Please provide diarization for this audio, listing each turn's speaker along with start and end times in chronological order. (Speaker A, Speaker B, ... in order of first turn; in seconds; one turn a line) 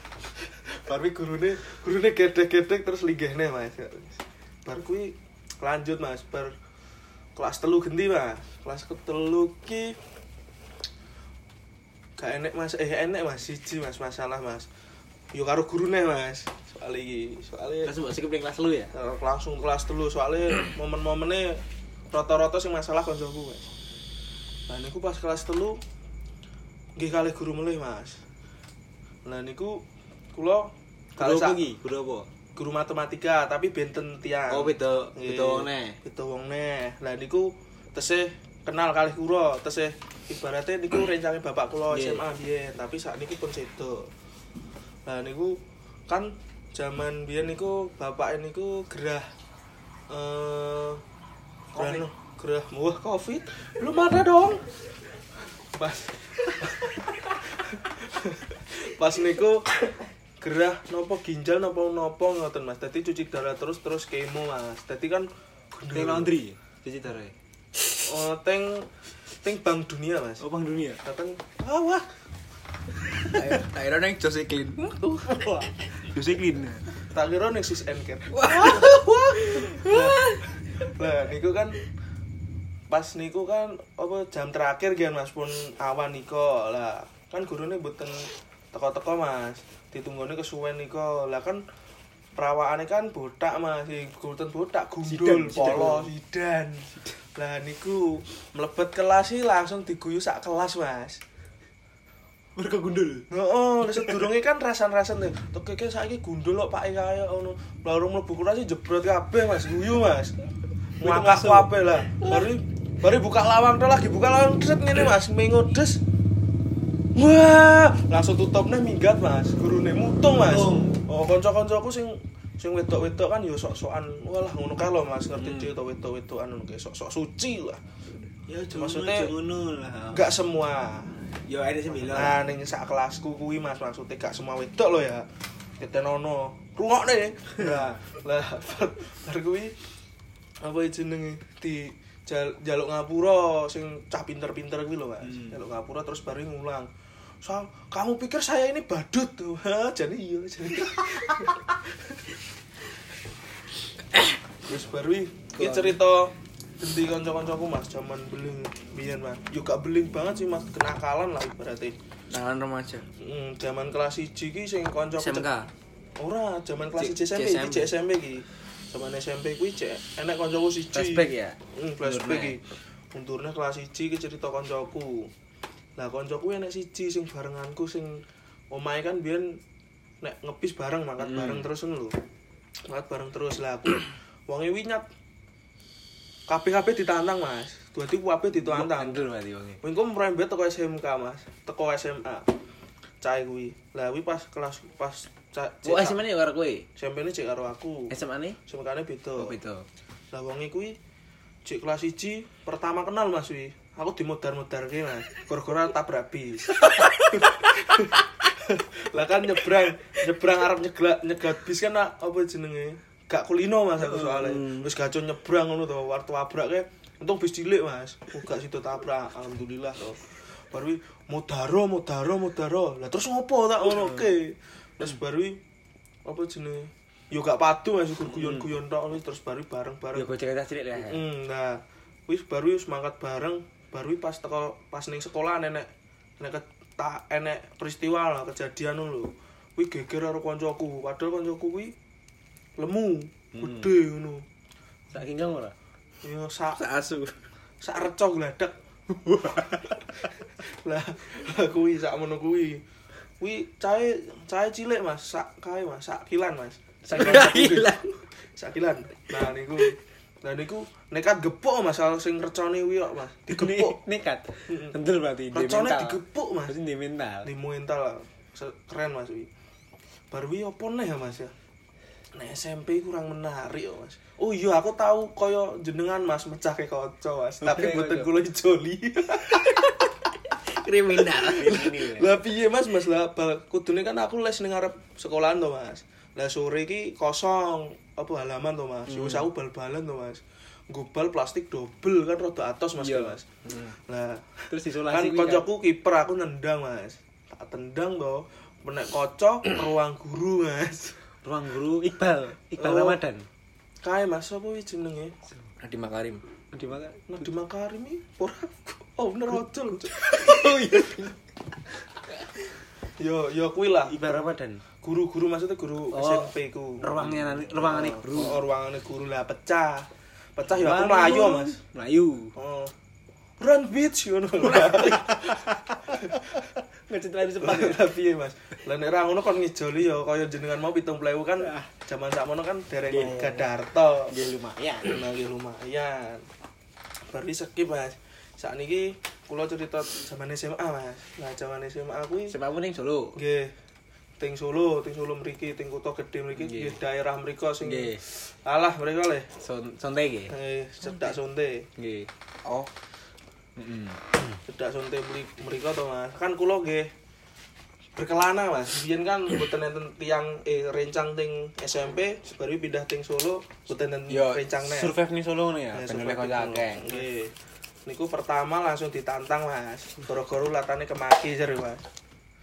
Speaker A: 0.7-6.5
Speaker A: 7.3-10.0
Speaker A: 12.2-14.7
Speaker A: 15.3-17.9
Speaker B: 17.8-18.9
Speaker A: 18.9-23.7
Speaker A: 24.7-25.8
Speaker A: 26.9-28.2
Speaker A: 29.2-31.6
Speaker B: 31.2-32.3
Speaker A: 32.5-44.1
Speaker B: 34.5-36.0
Speaker B: 41.9-42.2
Speaker A: 45.0-49.3
Speaker A: 50.1-51.0
Speaker A: 51.7-54.6
Speaker B: 51.8-52.0
Speaker A: 55.7-59.8
Speaker A: 60.4-66.3
Speaker B: 65.9-67.3
Speaker A: 68.0-68.9
Speaker A: 69.4-70.4
Speaker B: 70.4-71.0
Speaker A: 71.0-72.0
Speaker C: 73.3-75.6
Speaker B: 75.3-76.8
Speaker A: 77.1-81.8
Speaker C: 78.3-80.5
Speaker A: 82.9-91.6
Speaker A: 92.3-101.2
Speaker B: 95.0-96.1
Speaker B: 102.6-103.3
Speaker A: 103.3-110.3
Speaker B: 103.9-104.2
Speaker A: 111.0-116.0
Speaker B: 111.0-112.4
Speaker A: 117.1-127.8
Speaker B: 120.4-121.0
Speaker B: 125.4-125.7
Speaker B: 128.5-130.3
Speaker A: 128.7-129.3
Speaker A: 130.1-131.2
Speaker B: 131.5-132.4
Speaker A: 132.0-135.3
Speaker A: 135.8-139.8
Speaker A: 140.6-146.9
Speaker B: 145.2-145.6
Speaker A: 147.4-152.2
Speaker A: 154.7-161.9
Speaker C: 155.6-155.9
Speaker C: 162.3-163.1
Speaker A: 163.2-165.5
Speaker C: 165.1-165.7
Speaker A: 166.2-175.3
Speaker C: 167.0-167.9
Speaker B: 170.9-172.6
Speaker A: 176.0-179.6
Speaker A: 180.2-182.2
Speaker B: 181.2-181.7
Speaker A: 182.9-185.1
Speaker A: 186.5-189.2
Speaker B: 188.6-189.8
Speaker A: 189.8-192.5
Speaker A: 193.2-196.2
Speaker B: 195.8-196.8
Speaker A: 196.9-198.1
Speaker B: 198.1-198.6
Speaker A: 198.7-199.6
Speaker B: 199.4-199.8
Speaker A: 200.3-201.0
Speaker A: 201.6-225.6
Speaker B: 206.9-207.2
Speaker B: 214.2-214.8
Speaker A: 226.2-230.3
Speaker B: 228.3-228.7
Speaker B: 230.1-231.2
Speaker A: 231.0-241.9
Speaker A: 242.8-244.4
Speaker B: 243.5-243.9
Speaker B: 245.1-245.7
Speaker A: 246.2-246.9
Speaker C: 246.7-247.3
Speaker A: 247.8-248.7
Speaker A: 249.2-249.9
Speaker B: 249.3-250.0
Speaker A: 250.7-252.8
Speaker A: 253.4-264.0
Speaker B: 257.0-258.0
Speaker C: 257.3-257.6
Speaker B: 263.5-267.5
Speaker A: 264.7-264.9
Speaker A: 265.5-266.7
Speaker A: 267.4-269.5
Speaker A: 270.3-271.5
Speaker A: 272.3-280.1
Speaker B: 277.6-278.3
Speaker C: 280.7-281.6
Speaker B: 281.1-282.3
Speaker A: 281.2-293.4
Speaker B: 289.1-289.5
Speaker B: 293.0-293.9
Speaker A: 294.1-301.2
Speaker B: 294.7-295.7
Speaker B: 301.4-303.4
Speaker A: 302.8-303.2
Speaker A: 304.0-305.4
Speaker C: 305.8-306.4
Speaker B: 306.7-307.4
Speaker A: 307.3-310.7
Speaker B: 310.2-311.3
Speaker C: 310.4-311.1
Speaker A: 313.2-314.2
Speaker B: 314.0-314.8
Speaker A: 315.0-321.8
Speaker B: 316.1-318.6
Speaker B: 320.7-322.5
Speaker A: 322.6-322.9
Speaker A: 323.6-326.5
Speaker B: 324.6-328.0
Speaker A: 327.6-334.3
Speaker B: 331.6-331.9
Speaker B: 333.1-333.7
Speaker B: 334.3-335.2
Speaker A: 335.0-336.4
Speaker A: 337.3-342.5
Speaker B: 342.5-343.4
Speaker A: 343.4-343.7
Speaker A: 344.4-349.5
Speaker B: 346.5-347.0
Speaker B: 347.8-348.2
Speaker B: 349.6-350.5
Speaker A: 350.5-351.9
Speaker B: 352.0-352.3
Speaker C: 352.6-352.9
Speaker B: 353.8-354.6
Speaker A: 354.7-357.1
Speaker A: 358.1-365.1
Speaker B: 364.3-367.2
Speaker A: 365.9-367.5
Speaker A: 368.1-372.0